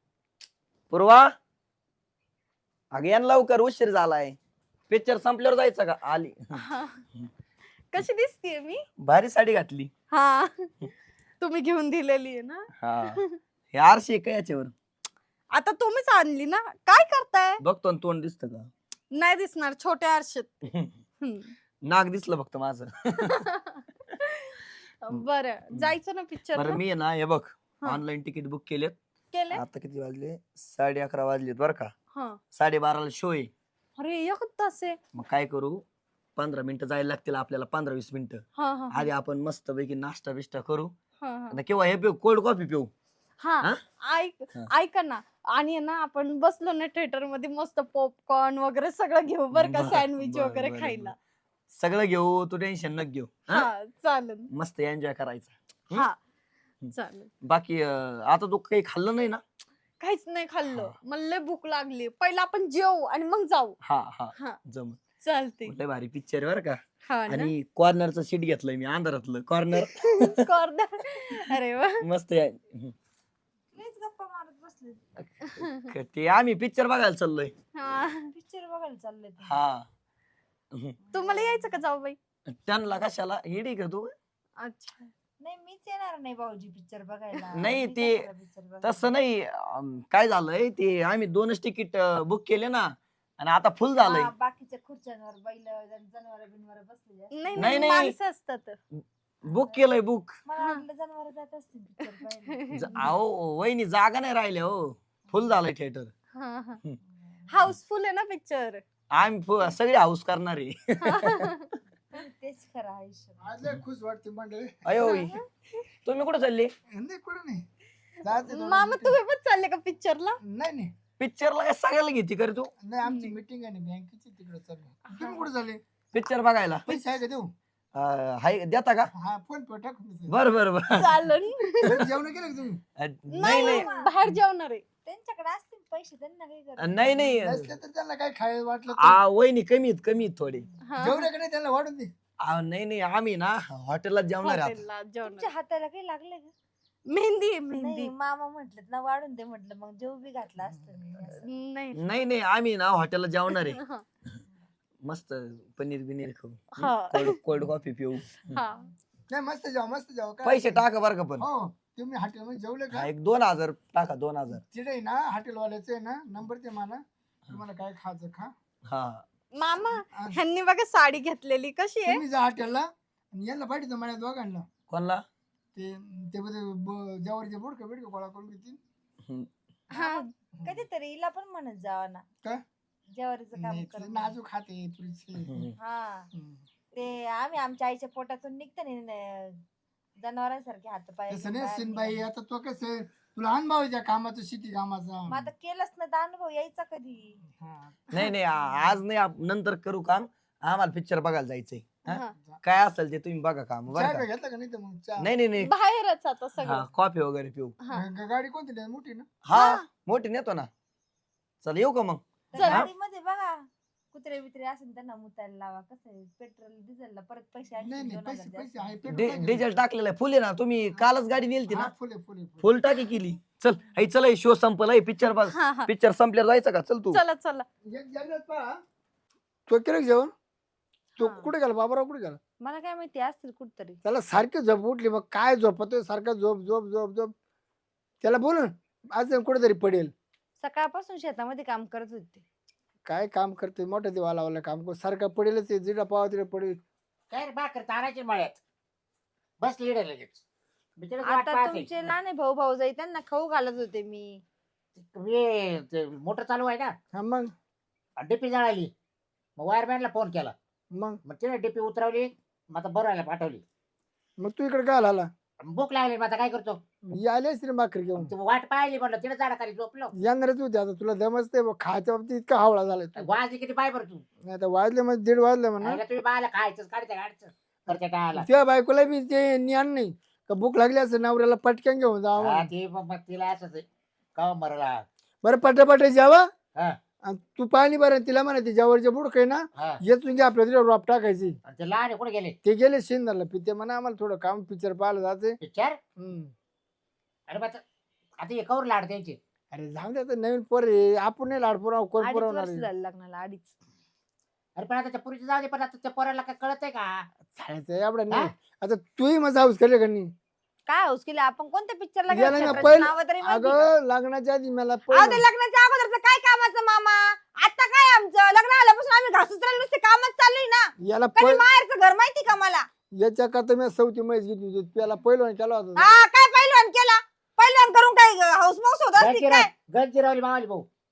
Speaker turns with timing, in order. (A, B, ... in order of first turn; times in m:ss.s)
0:00.9-0:01.3 A
0:02.9-0:04.4 A
0:04.9-0:06.6 A
0:06.6-0:07.0 B
0:07.9-0:08.9 B
0:09.0-0:09.9 A
0:10.1-0:10.9 B
0:11.4-0:13.4 B
0:12.8-0:13.2 A
0:13.7-0:14.7 A
0:15.5-0:17.6 B
0:17.6-0:18.7 A
0:19.1-0:20.7 B
0:21.2-0:21.5 B
0:21.9-0:23.4 A
0:23.2-0:26.8 B
0:26.6-0:29.0 A
0:29.3-0:29.6 B
0:29.5-0:31.9 A
0:32.1-0:32.4 B
0:32.5-0:33.5 A
0:34.0-0:35.0 B
0:35.2-0:35.8 A
0:36.4-0:40.9 A
0:38.6-0:39.1 B
0:41.2-0:41.6 B
0:41.5-0:42.9 A
0:43.4-0:51.2 B
0:49.6-0:51.1 A
0:51.7-0:53.7 A
0:53.5-0:54.5 B
0:54.5-0:56.1 A
0:55.9-0:56.2 B
0:56.9-0:57.3 B
0:57.4-0:59.4 A
1:00.0-1:03.8 B
1:03.8-1:05.0 A
1:05.2-1:05.7 B
1:05.7-1:10.4 A
1:07.1-1:07.5 B
1:09.8-1:12.0 B
1:12.0-1:13.0 A
1:13.8-1:15.0 C
1:15.6-1:17.5 A
1:17.8-1:18.3 B
1:18.3-1:19.6 C
1:19.4-1:19.9 A
1:21.1-1:22.2 B
1:21.1-1:21.5 C
1:22.5-1:24.1 A
1:24.6-1:25.1 B
1:25.4-1:29.1 C
1:27.5-1:28.3 A
1:28.8-1:34.3 A
1:34.0-1:38.0 C
1:37.3-1:38.8 B
1:37.6-1:38.2 A
1:39.0-1:40.4 A
1:40.5-1:43.1 C
1:42.7-1:43.0 B
1:42.7-1:46.1 A
1:46.4-1:46.8 B
1:47.5-1:48.8 B
1:49.1-1:51.5 A
1:51.0-1:51.7 B
1:52.1-1:53.4 C
1:53.4-1:54.9 D
1:54.9-1:55.4 A
1:55.1-1:55.8 B
1:56.0-1:56.7 A
1:56.9-1:57.6 D
1:58.2-1:59.2 D
1:58.4-2:00.4 B
2:00.4-2:00.9 D
2:01.2-2:02.7 A
2:02.8-2:05.8 D
2:03.0-2:03.4 B
2:05.1-2:05.5 B
2:06.1-2:06.9 A
2:06.9-2:07.5 D
2:08.0-2:09.1 A
2:09.2-2:10.4 D
2:10.3-2:11.0 A
2:10.9-2:12.1 B
2:11.8-2:12.8 D
2:13.0-2:13.9 A
2:13.3-2:14.8 B
2:13.4-2:14.1 C
2:15.0-2:17.3 C
2:16.8-2:17.7 A
2:17.4-2:19.2 D
2:19.0-2:20.7 A
2:20.9-2:21.3 B
2:21.0-2:22.1 D
2:22.4-2:24.8 A
2:24.4-2:25.5 B
2:25.2-2:26.5 C
2:27.1-2:28.1 B
2:27.7-2:31.4 C
2:31.4-2:32.0 B
2:32.0-2:33.8 A
2:33.5-2:34.0 B
2:35.0-2:38.6 A
2:36.8-2:37.4 B
2:38.5-2:38.9 B
2:39.3-2:40.8 D
2:40.4-2:41.5 A
2:41.4-2:43.1 D
2:42.9-2:44.6 A
2:44.6-2:48.5 D
2:48.9-2:49.2 A
2:49.6-2:52.2 B
2:50.1-2:50.4 D
2:52.1-2:54.7 D
2:54.9-2:55.2 A
2:55.8-2:58.8 D
2:59.9-3:00.3 B
2:59.9-3:02.2 C
3:03.2-3:04.4 C
3:03.6-3:05.7 D
3:05.4-3:05.7 A
3:05.8-3:06.3 C
3:06.3-3:06.6 D
3:07.0-3:09.6 C
3:10.2-3:12.2 C
3:11.3-3:15.5 D
3:15.3-3:17.4 C
3:17.5-3:18.0 D
3:18.1-3:24.2 A
3:22.1-3:22.3 B
3:22.1-3:22.6 D
3:23.9-3:25.3 D
3:25.2-3:25.7 A
3:25.6-3:26.9 B
3:26.6-3:27.7 A
3:27.9-3:29.3 D
3:29.4-3:30.7 A
3:29.5-3:29.8 B
3:31.6-3:32.9 A
3:32.5-3:38.9 C
3:32.6-3:32.9 B
3:37.8-3:39.6 D
3:39.1-3:41.9 A
3:41.7-3:42.7 D
3:42.6-3:47.2 A
3:45.5-3:45.9 B
3:47.1-3:47.7 B
3:47.9-3:48.8 D
3:49.7-3:50.3 D
3:51.2-3:51.5 C
3:51.2-3:52.4 D
3:52.6-3:54.0 C
3:54.0-3:57.3 D
3:58.2-4:00.1 D
4:00.6-4:02.4 C
4:03.1-4:06.8 D
4:07.3-4:08.6 E
4:09.6-4:10.4 E
4:11.0-4:11.9 E
4:11.2-4:14.4 C
4:15.0-4:17.0 E
4:17.1-4:17.5 D
4:18.2-4:18.9 E
4:19.6-4:20.6 E
4:20.9-4:21.2 D
4:21.2-4:23.6 E
4:24.4-4:25.3 D
4:25.6-4:26.8 E
4:27.1-4:28.3 D
4:28.2-4:30.1 E
4:30.2-4:33.3 D
4:33.2-4:34.2 E
4:34.5-4:36.0 D
4:35.8-4:38.5 E
4:37.9-4:42.7 D
4:42.4-4:45.0 E
4:45.4-4:46.5 D
4:47.2-4:51.6 D
4:51.7-4:52.6 E
4:52.6-4:55.6 D
4:55.6-4:56.0 E
4:56.2-4:56.5 D
4:57.5-4:57.8 E
4:58.4-4:59.4 E
4:59.7-5:02.9 D
5:02.2-5:03.7 C
5:04.8-5:07.3 E
5:07.5-5:10.3 D
5:10.9-5:13.9 C
5:12.3-5:15.4 D
5:15.1-5:22.9 C
5:21.0-5:21.6 D
5:23.2-5:26.1 D
5:26.0-5:29.7 C
5:29.2-5:30.9 E